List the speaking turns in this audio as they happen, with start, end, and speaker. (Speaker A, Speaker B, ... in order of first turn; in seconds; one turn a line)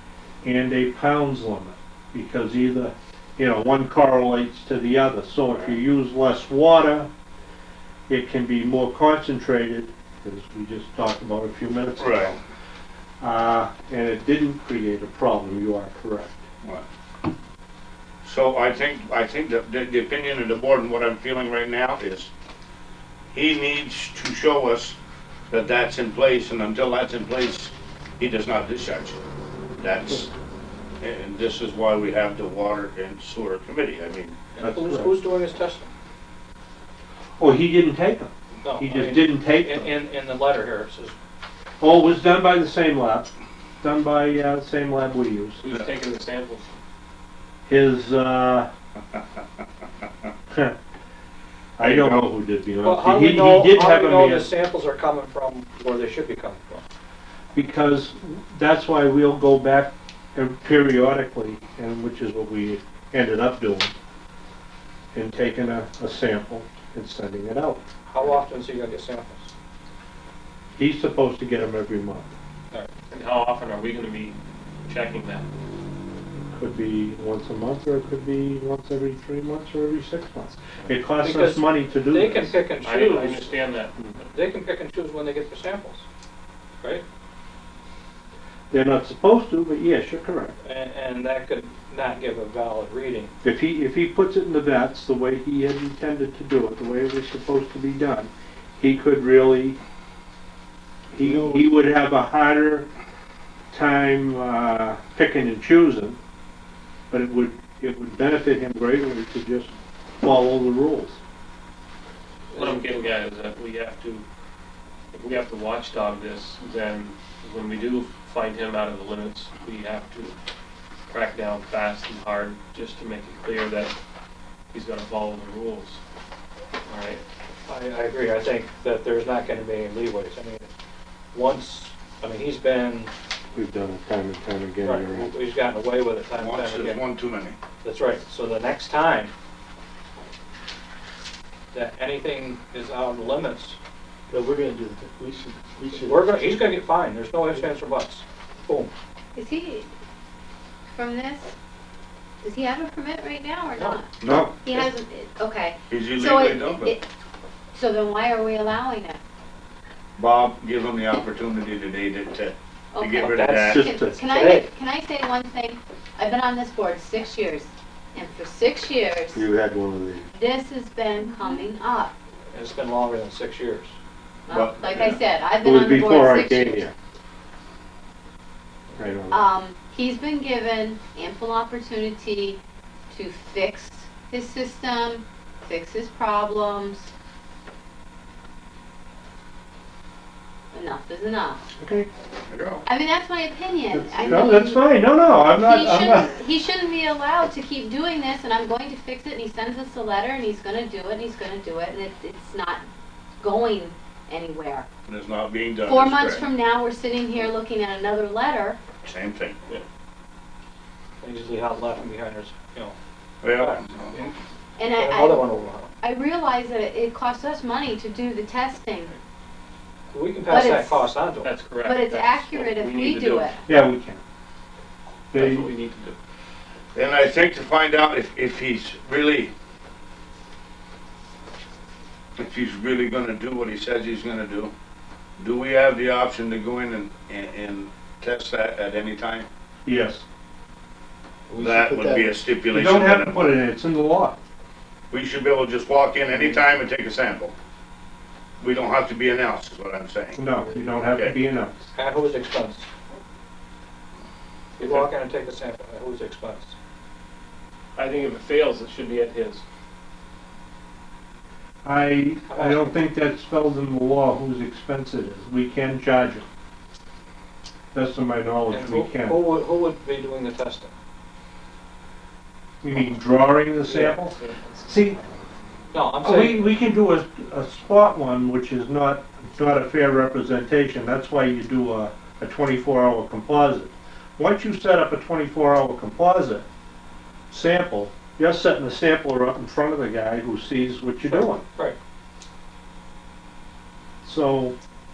Speaker A: 0.4-7.1
Speaker A: 8.1-12.4
Speaker B: 12.0-12.4
Speaker A: 13.2-16.4
Speaker B: 18.2-22.3
Speaker B: 23.3-24.9
Speaker B: 25.5-29.2
Speaker B: 29.8-30.3
Speaker B: 31.0-34.4
Speaker C: 34.5-35.9
Speaker A: 34.6-35.1
Speaker A: 37.4-39.9
Speaker C: 38.6-41.2
Speaker A: 41.8-43.3
Speaker A: 43.8-45.6
Speaker D: 45.6-46.8
Speaker A: 47.7-48.7
Speaker A: 50.5-50.8
Speaker A: 51.8-54.5
Speaker B: 51.8-52.2
Speaker C: 52.8-56.8
Speaker A: 57.5-63.9
Speaker A: 65.1-67.8
Speaker C: 68.1-69.5
Speaker A: 70.8-72.3
Speaker D: 73.1-75.5
Speaker A: 76.3-82.6
Speaker C: 81.2-83.7
Speaker D: 82.8-84.0
Speaker C: 84.2-86.0
Speaker A: 88.7-90.6
Speaker C: 90.6-93.3
Speaker A: 93.4-99.8
Speaker A: 101.1-102.9
Speaker A: 103.7-106.2
Speaker A: 107.1-111.2
Speaker D: 112.5-114.2
Speaker D: 115.1-120.3
Speaker D: 121.1-123.9
Speaker D: 124.7-126.0
Speaker D: 126.9-127.2
Speaker C: 127.7-130.7
Speaker C: 131.3-133.1
Speaker A: 133.5-135.3
Speaker C: 134.8-137.0
Speaker B: 136.4-137.6
Speaker C: 137.8-139.3
Speaker C: 141.7-143.8
Speaker E: 144.3-146.6
Speaker C: 146.0-148.9
Speaker F: 149.3-149.9
Speaker F: 150.9-151.5
Speaker F: 152.4-154.1
Speaker C: 153.8-154.0
Speaker B: 154.2-154.5
Speaker A: 154.2-154.6
Speaker F: 154.6-157.1
Speaker B: 155.9-156.9
Speaker F: 157.7-159.2
Speaker B: 160.2-163.8
Speaker F: 162.9-169.4
Speaker C: 163.2-164.7
Speaker A: 163.6-164.3
Speaker A: 169.3-170.3
Speaker F: 170.3-172.1
Speaker C: 172.5-173.9
Speaker F: 174.5-176.8
Speaker B: 174.5-175.2
Speaker A: 175.6-176.9
Speaker A: 179.0-179.5
Speaker F: 179.3-182.6
Speaker F: 183.1-187.1
Speaker F: 190.7-191.6
Speaker A: 191.8-192.1
Speaker B: 192.5-192.8
Speaker F: 192.8-194.9
Speaker A: 193.9-196.3
Speaker F: 195.5-202.8
Speaker F: 203.4-204.9
Speaker B: 205.1-206.5
Speaker F: 205.8-208.8
Speaker B: 209.0-209.6
Speaker C: 211.2-213.0
Speaker B: 213.4-214.2
Speaker C: 213.6-214.3
Speaker F: 214.8-215.4
Speaker C: 214.8-215.9
Speaker F: 216.0-219.1
Speaker C: 220.1-221.5
Speaker F: 220.5-221.1
Speaker D: 221.4-223.6
Speaker F: 221.7-223.6
Speaker A: 223.7-224.2
Speaker A: 225.3-225.7
Speaker D: 225.3-226.2
Speaker B: 226.9-229.5
Speaker B: 232.4-234.7
Speaker B: 235.4-239.5
Speaker A: 239.8-240.2
Speaker E: 241.5-242.3
Speaker B: 241.6-243.6
Speaker A: 242.7-244.4
Speaker B: 245.1-247.5
Speaker B: 248.6-250.4
Speaker A: 250.3-251.9
Speaker C: 251.9-252.9
Speaker C: 254.8-256.7
Speaker D: 254.8-255.1
Speaker D: 257.9-259.6
Speaker A: 261.8-266.4
Speaker C: 262.5-263.0
Speaker A: 267.9-269.4
Speaker C: 268.7-270.9
Speaker A: 272.8-275.2
Speaker D: 273.9-274.8
Speaker C: 275.9-276.8
Speaker A: 276.2-286.6
Speaker A: 287.5-291.6
Speaker C: 291.2-292.0
Speaker A: 294.2-294.7